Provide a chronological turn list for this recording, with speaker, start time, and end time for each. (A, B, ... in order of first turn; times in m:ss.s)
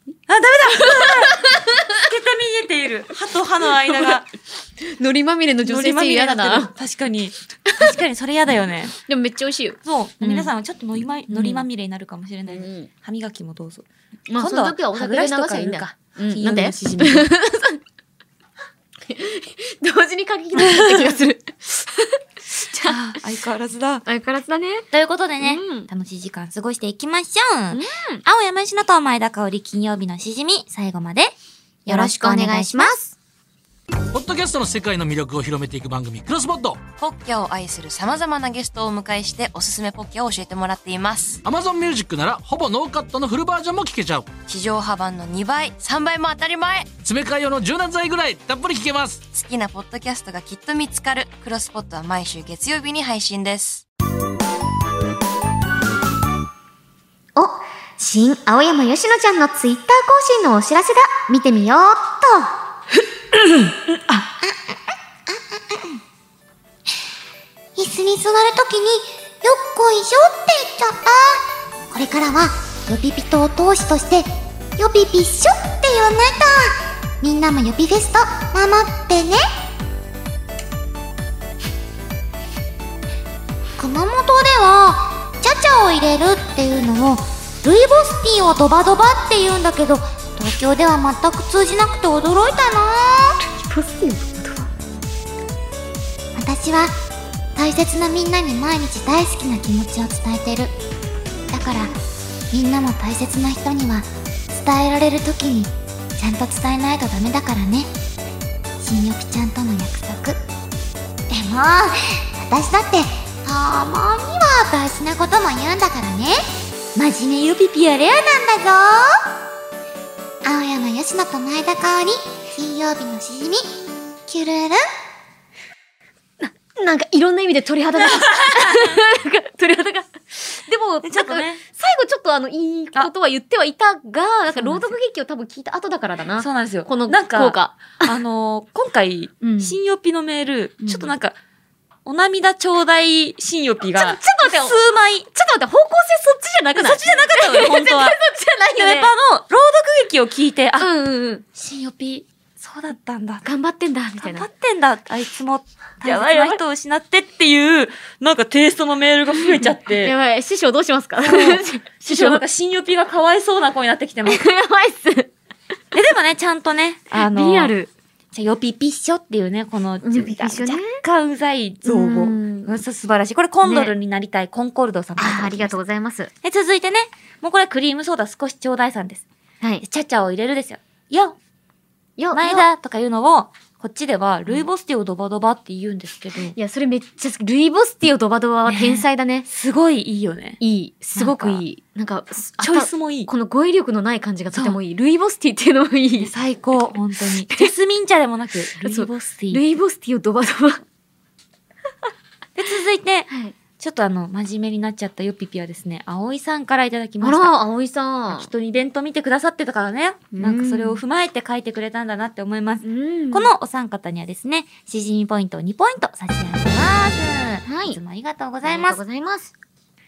0:00.3-0:04.3 A
0:00.8-0:02.0 B
0:03.9-0:04.2 B
0:04.8-0:06.7 B
0:05.6-0:08.9 A
0:07.7-0:07.9 B
0:09.1-0:10.5 B
0:09.8-0:13.8 A
0:11.3-0:11.6 B
0:12.5-0:12.9 B
0:14.3-0:17.8 B
0:14.4-0:17.3 A
0:19.1-0:23.2 B
0:20.6-0:21.2 A
0:22.8-0:24.0 A
0:24.0-0:24.9 B
0:24.9-0:31.3 A
0:25.4-0:25.9 B
0:27.7-0:28.2 B
0:31.9-0:32.9 A
0:31.9-0:33.1 B
0:34.1-0:36.8 C
0:37.0-0:41.4 D
0:41.4-0:44.3 C
0:44.5-0:46.9 D
0:47.0-0:49.2 C
0:49.3-0:53.8 D
0:57.4-1:02.5 B
1:03.5-1:04.2 A
1:04.4-1:06.0 E
1:07.8-1:19.4 E
1:23.8-1:33.4 E
1:33.5-1:34.7 B
1:36.4-1:37.0 E
1:37.6-1:40.7 E
1:41.5-1:41.9 E
1:42.5-1:47.9 E
1:48.8-1:50.4 E
1:51.3-1:56.4 E
1:57.0-1:57.2 E
1:57.0-1:58.0 A
1:58.0-1:59.2 E
2:00.4-2:03.7 E
2:04.2-2:04.8 E
2:06.7-2:18.1 B
2:08.1-2:09.0 A
2:11.0-2:11.6 A
2:14.6-2:15.0 A
2:16.4-2:21.4 A
2:19.4-2:19.8 B
2:20.8-2:21.1 B
2:22.0-2:25.3 A
2:23.9-2:24.8 B
2:25.3-2:29.1 B
2:26.8-2:28.2 A
2:28.8-2:30.9 A
2:30.8-2:31.4 B
2:31.6-2:33.4 A
2:33.4-2:34.5 B
2:34.2-2:40.1 A
2:36.0-2:36.6 B
2:39.9-2:42.4 B
2:41.2-2:44.4 A
2:44.2-2:45.3 B
2:45.9-2:47.7 A
2:47.1-2:47.9 B
2:48.3-2:55.8 A
2:50.0-2:51.0 B
2:51.8-2:52.7 B
2:53.6-2:53.9 B
2:55.2-2:56.3 B
2:56.4-2:59.2 A
2:59.8-3:01.4 A
3:02.2-3:02.6 B
3:02.3-3:06.6 A
3:06.6-3:09.4 B
3:08.7-3:10.6 A
3:10.6-3:16.3 B
3:11.1-3:11.6 A
3:12.6-3:13.3 A
3:14.5-3:14.8 A
3:16.2-3:19.6 A
3:18.8-3:20.8 B
3:22.6-3:27.5 A
3:23.3-3:23.6 B
3:27.2-3:28.5 B
3:28.3-3:39.0 A
3:30.3-3:31.0 B
3:32.8-3:33.5 B
3:37.6-3:38.0 B
3:38.6-3:39.5 B